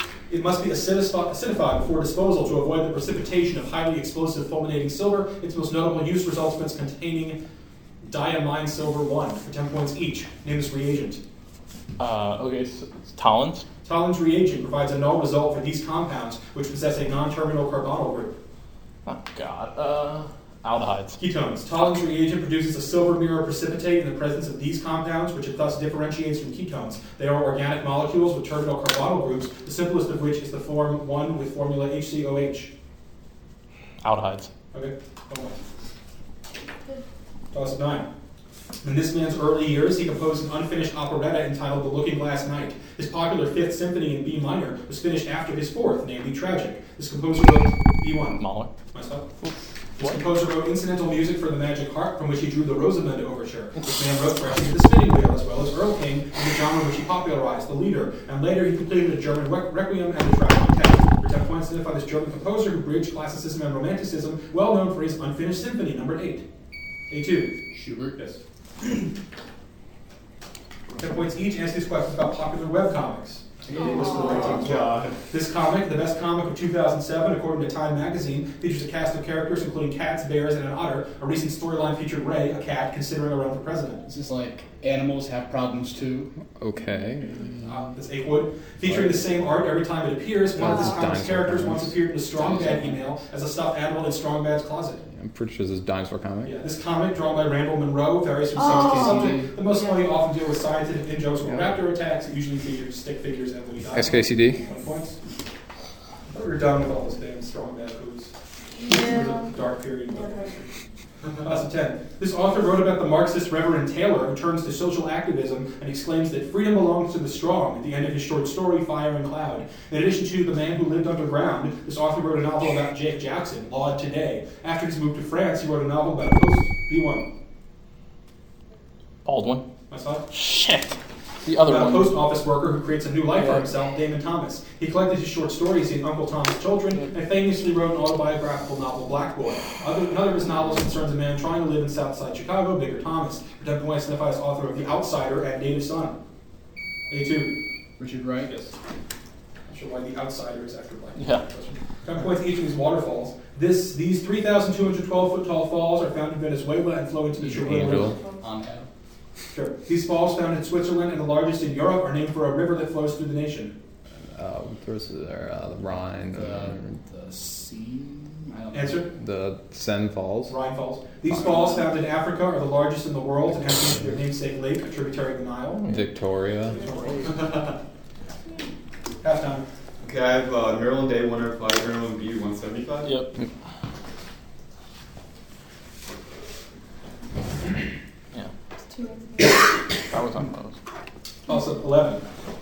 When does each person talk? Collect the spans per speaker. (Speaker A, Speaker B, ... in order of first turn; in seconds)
Speaker A: 0.3-7.4, 8.0-11.2, 13.8-18.3, 21.2-32.7, 34.7-35.6, 37.5-38.1, 38.8-48.4, 48.9-49.3, 50.0-66.4, 67.1-67.6, 71.0-84.0, 87.6-95.0, 96.4-105.2, 106.3-108.3, 108.8-110.6, 111.4-127.3, 129.9-130.2, 131.6-146.2, 147.1-147.6, 148.5-148.7, 149.7-158.1, 159.5-163.8, 168.7-169.1, 170.5-175.8, 179.2-179.7, 191.5-192.2
Speaker B: 12.0-13.7, 19.1-21.2, 34.0-34.5, 48.4-48.7, 49.4-50.2, 129.2-129.7, 130.3-132.2, 133.3-133.7, 151.2-151.4, 183.0-183.3, 190.0-190.8
Speaker C: 67.7-68.2, 73.7-74.8, 84.0-86.3, 92.4-93.0, 98.7-99.5, 148.0-148.5, 157.4-158.9, 166.3-169.1
Speaker D: 73.8-74.2, 98.6-100.1, 108.8-109.6, 110.1-110.7, 158.1-158.5, 188.9-189.5
Speaker E: 74.1-75.1, 177.3-177.7, 180.0-183.2
Speaker F: 86.6-87.6, 90.5-92.0, 95.2-96.5, 103.9-104.6, 157.6-158.2, 164.2-166.9, 169.1-170.6, 171.3-171.8, 175.9-176.8